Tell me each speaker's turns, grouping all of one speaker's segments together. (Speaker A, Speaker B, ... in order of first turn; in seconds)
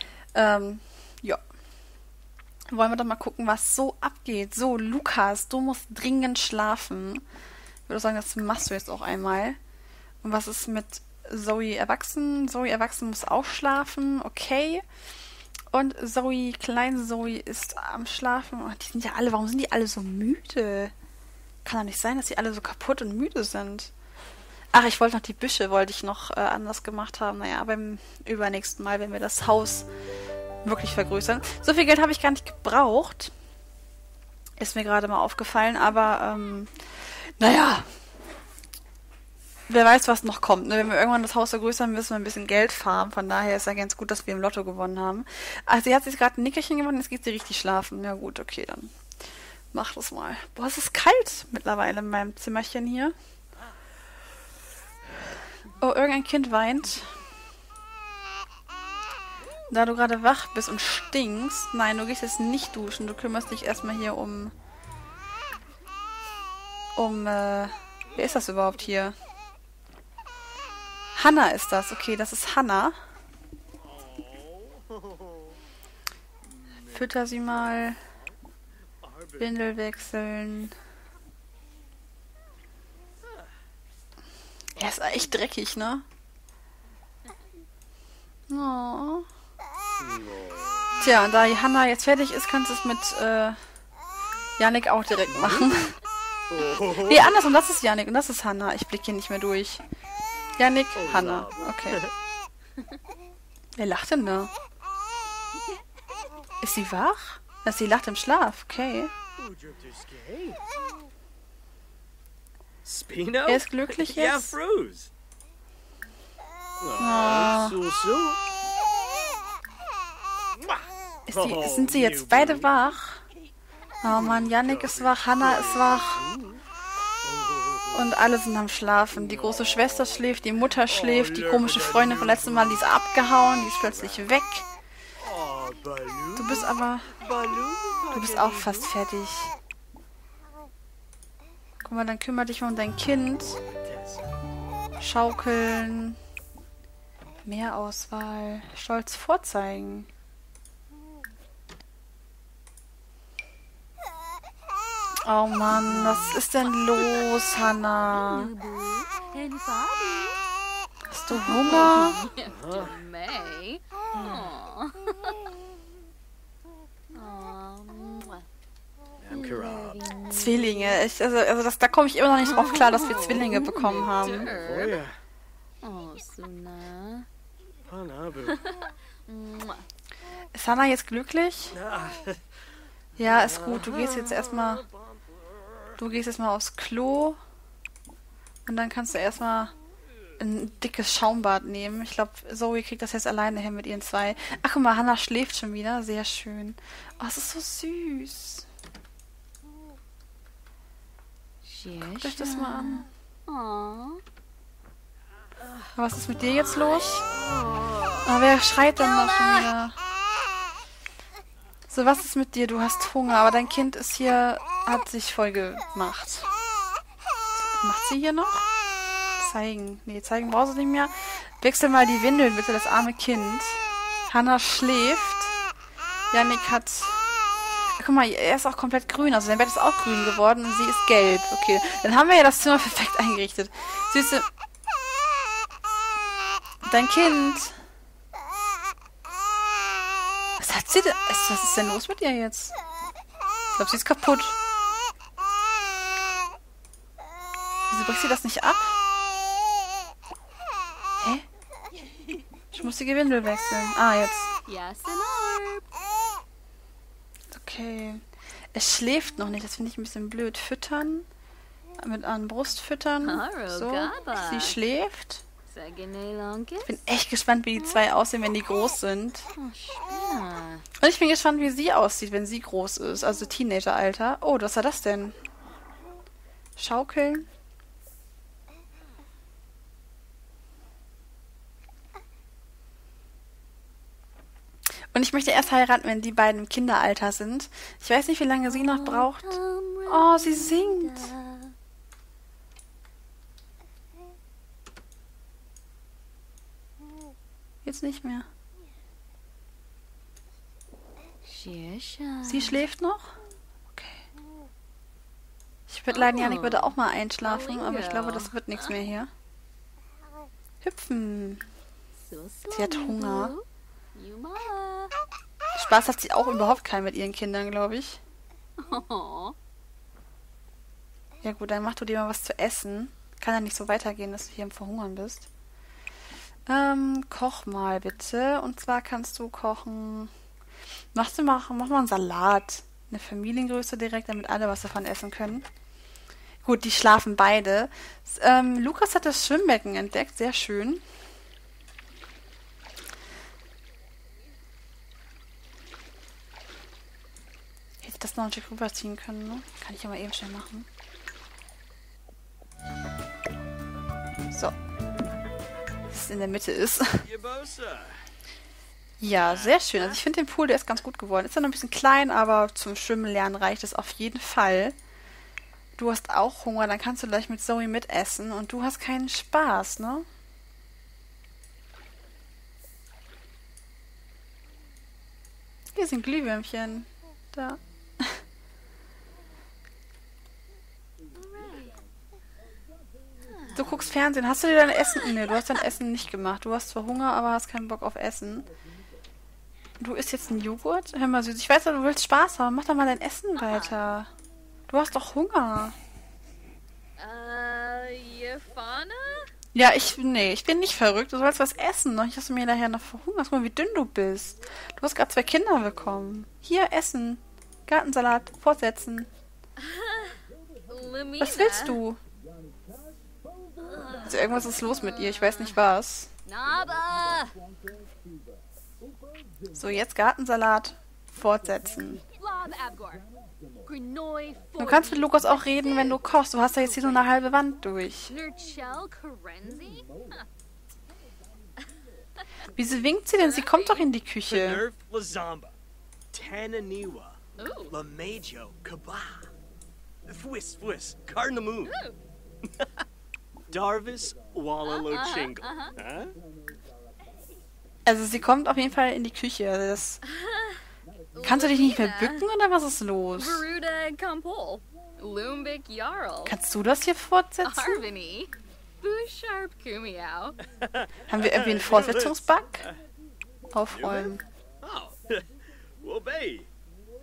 Speaker A: 0.3-1.4, 2.7-7.2, 7.9-9.6, 10.2-14.8, 15.7-20.9, 21.6-23.9, 24.7-29.9, 30.6-33.3, 34.6-36.7, 37.4-37.9, 39.7-49.0, 49.7-53.1, 55.8-57.1, 59.7-64.5, 67.0-69.2, 71.2-73.0, 76.9-78.0, 79.4-80.8, 84.8-86.0, 88.5-89.3, 91.0-93.6, 94.6-96.0, 97.0-99.8, 100.6-102.0, 103.8-104.5, 106.6-109.1, 113.5-114.5, 117.0-117.8, 121.3-123.2, 124.0-126.2, 127.9-134.7, 136.4-137.2, 138.1-139.5, 141.8-143.6, 145.0-146.2, 147.4-150.1, 155.2-158.5, 161.1-162.2, 170.3-174.6, 180.5-181.8, 183.2-184.8, 186.0-187.4, 188.7-189.7, 190.4-198.7, 202.0-203.1, 206.0-207.2, 208.2-209.9, 211.9-216.5, 217.6-218.7, 219.4-225.6, 226.3-227.2, 228.0-234.5, 236.8-237.8, 240.6-242.8, 243.8-244.6, 247.9-248.9, 251.2-251.5, 252.7-254.6, 257.5-261.3, 262.0-265.4, 266.8-269.5, 271.0-275.4, 276.8-277.5, 285.1-291.3, 297.9-298.5, 302.4-303.3, 303.9-304.2, 305.9-309.3, 310.8-311.6, 312.7-313.5, 315.8-318.2, 321.4-325.5, 326.7-330.3, 331.1-335.7, 336.6-341.0, 348.0-350.9, 356.1-357.2, 359.2-365.0, 366.0-370.3, 375.9-378.4, 383.8-388.7, 390.0-394.3, 394.9-396.0, 399.7-409.3, 411.4-412.2, 414.2-416.3, 419.8-422.2, 424.8-428.3, 432.8-434.8, 448.1-450.2, 451.4-453.7, 456.4-458.0, 461.3-462.9, 463.7-464.4
Speaker B: 73.8-75.6, 76.4-78.1, 79.0-79.5, 90.0-90.8, 95.3-95.9, 96.5-97.5, 101.0-102.1, 109.4-110.6, 112.8-115.1, 116.8-118.4, 120.6-122.7, 124.0-126.6, 127.2-128.1, 129.1-132.9, 133.4-134.3, 135.2-138.9, 143.8-144.3, 162.4-162.9, 169.2-170.1, 174.5-175.2, 177.9-178.6, 181.7-182.4, 183.2-185.9, 357.2-358.3, 359.4-360.0, 434.5-435.7, 436.3-437.4, 437.9-439.5, 440.3-442.0, 443.7-446.4, 460.8-462.4, 463.9-465.5, 466.0-466.7
Speaker C: 155.7-156.4, 158.0-160.4, 161.3-165.6, 167.1-168.4, 169.3-171.0, 172.4-175.0, 175.8-177.3, 178.5-179.8, 201.6-204.2, 206.6-208.3, 209.0-209.7, 254.7-255.8, 263.2-264.8, 265.7-267.0, 267.8-268.0, 269.6-270.9, 288.7-291.7, 301.4-302.8, 306.1-309.0, 312.2-315.1, 318.8-319.6, 381.4-382.0, 383.4-383.9, 393.6-394.1, 397.2-399.5, 409.8-412.0, 413.8-415.9, 416.5-417.6, 422.3-423.2, 423.9-426.2, 426.8-427.2, 428.3-430.4, 433.3-434.1, 437.6-438.0, 441.8-442.2, 444.9-445.9, 450.3-450.8, 451.4-452.5, 453.4-456.6, 457.6-460.6